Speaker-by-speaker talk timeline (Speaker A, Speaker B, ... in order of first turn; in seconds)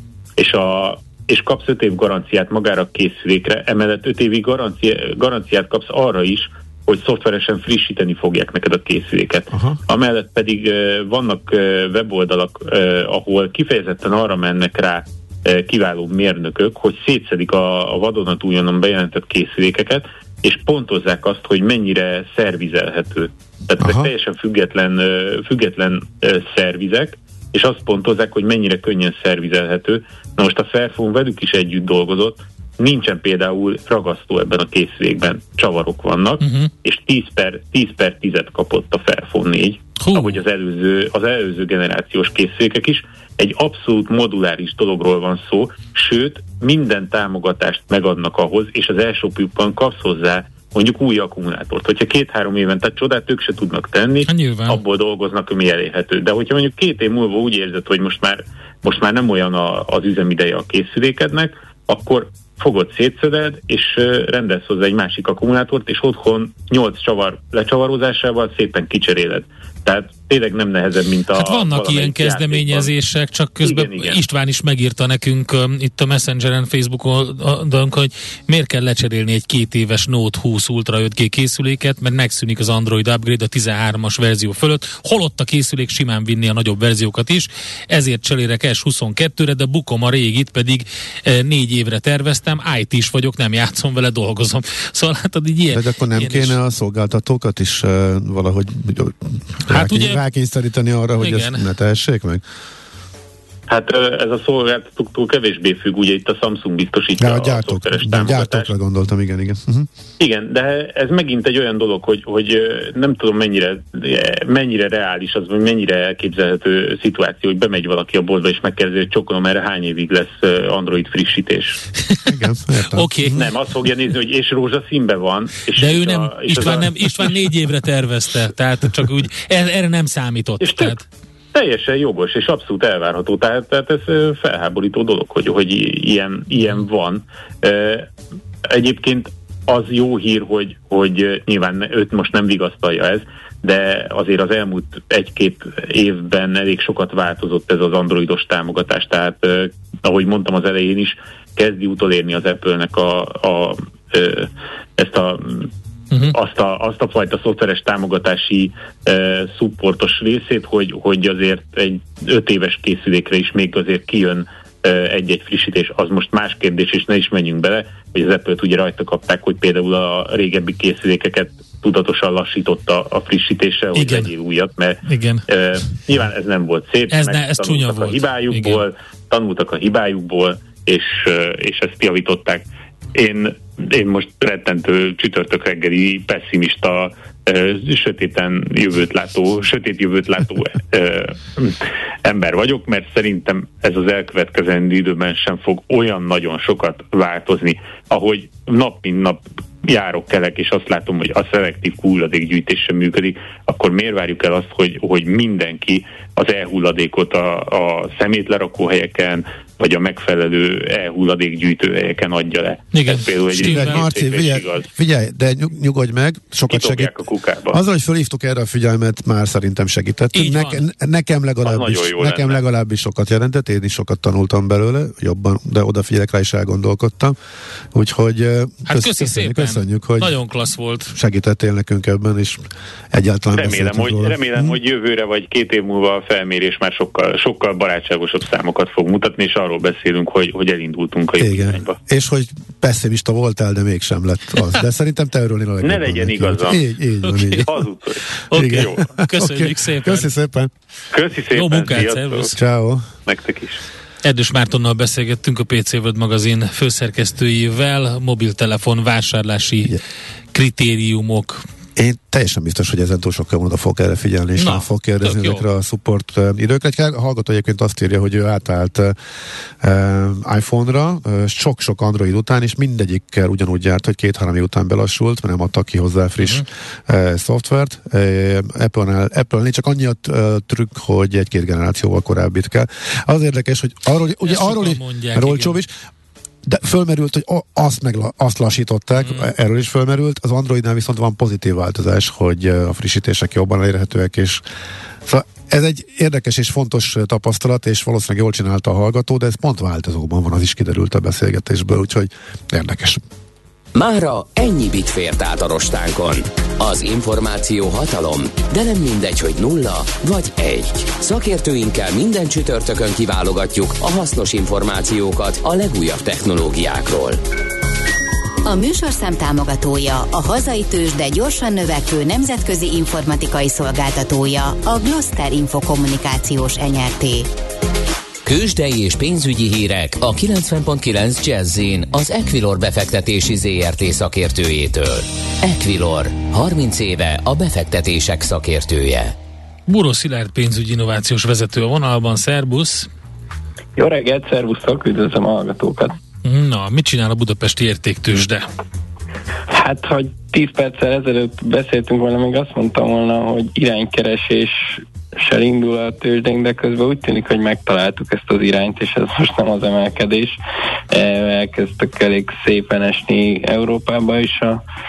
Speaker A: 0.4-72.9, 73.6-74.2, 103.7-108.7, 110.2-121.8, 123.3-127.3, 130.6-131.0, 131.5-138.1, 138.7-155.7, 156.3-182.6, 183.1-214.9, 216.7-217.8, 221.6-222.6, 233.6-242.0, 245.8-246.8, 247.7-249.0, 251.1-252.5, 253.2-253.8
Speaker B: 9.5-9.8, 23.8-24.1, 95.7-102.4, 107.2-109.9, 122.3-123.5, 213.6-217.1, 217.7-227.3, 227.9-230.3, 231.1-234.8, 241.4-247.8, 248.5-250.7, 252.6-253.1, 261.9-269.1, 269.8-285.9, 286.6-294.6, 295.2-303.2
Speaker C: 36.4-36.7, 40.0-40.4, 54.2-54.8, 71.3-96.6, 99.7-100.2, 101.2-101.6, 122.9-123.5, 125.7-131.0, 173.9-174.3, 175.1-175.4, 177.1-178.8, 212.9-214.1, 220.3-220.8, 228.9-231.1, 247.2-247.7, 248.5-250.3, 251.5-252.5, 254.2-260.0, 260.5-261.6, 264.6-265.6, 284.4-285.8, 289.2-289.5, 339.9-343.1, 346.4-348.6
Speaker D: 303.9-317.4, 328.4-339.3
Speaker E: 318.6-327.5
Speaker F: 344.0-346.1, 349.7-360.6, 361.1-364.8